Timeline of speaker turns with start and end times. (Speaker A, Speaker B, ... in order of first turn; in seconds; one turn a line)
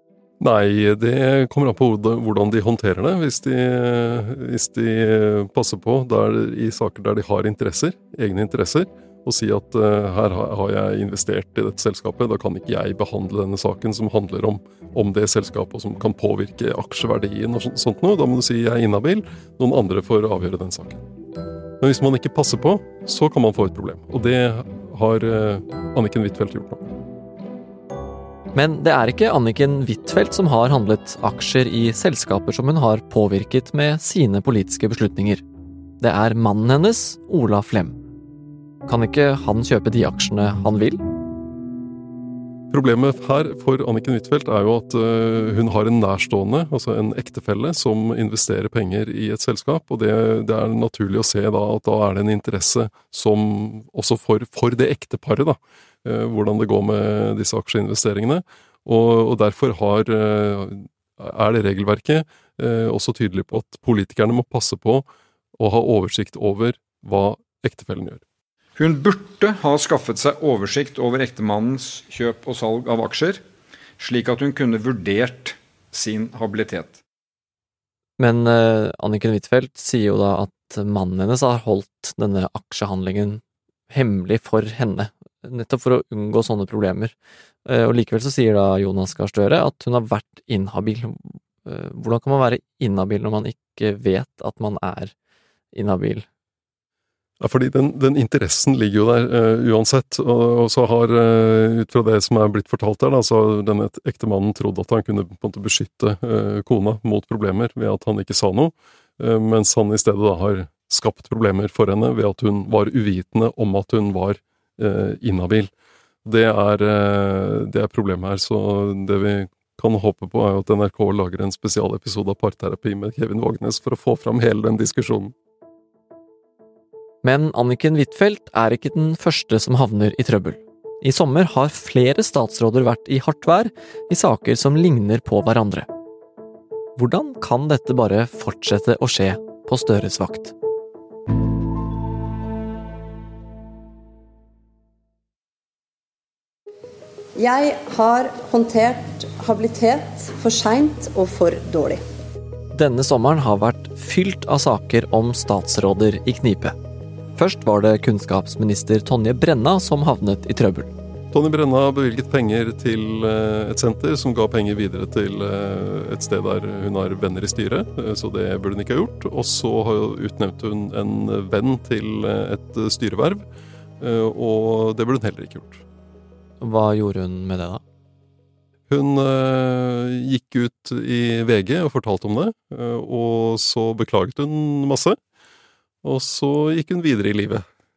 Speaker A: 0.4-21.0
Speaker A: 21.8-26.9
Speaker B: 28.5-35.4
Speaker B: 36.0-38.0
Speaker B: 38.9-41.0
Speaker A: 42.7-68.2
Speaker C: 68.8-73.4
Speaker C: 74.0-77.0
Speaker B: 78.2-87.2
Speaker B: 87.7-95.1
Speaker B: 95.7-96.3
Speaker A: 97.4-115.7
Speaker A: 116.2-125.3
Speaker B: 127.2-135.9
Speaker B: 137.0-140.5
Speaker D: 147.3-152.0
Speaker B: 152.7-156.8
Speaker B: 157.4-160.9
Speaker A: 161.3-173.4
Speaker A: 174.0-175.8
Speaker B: 176.6-177.8
Speaker A: 178.9-185.2
Speaker A: 186.0-187.6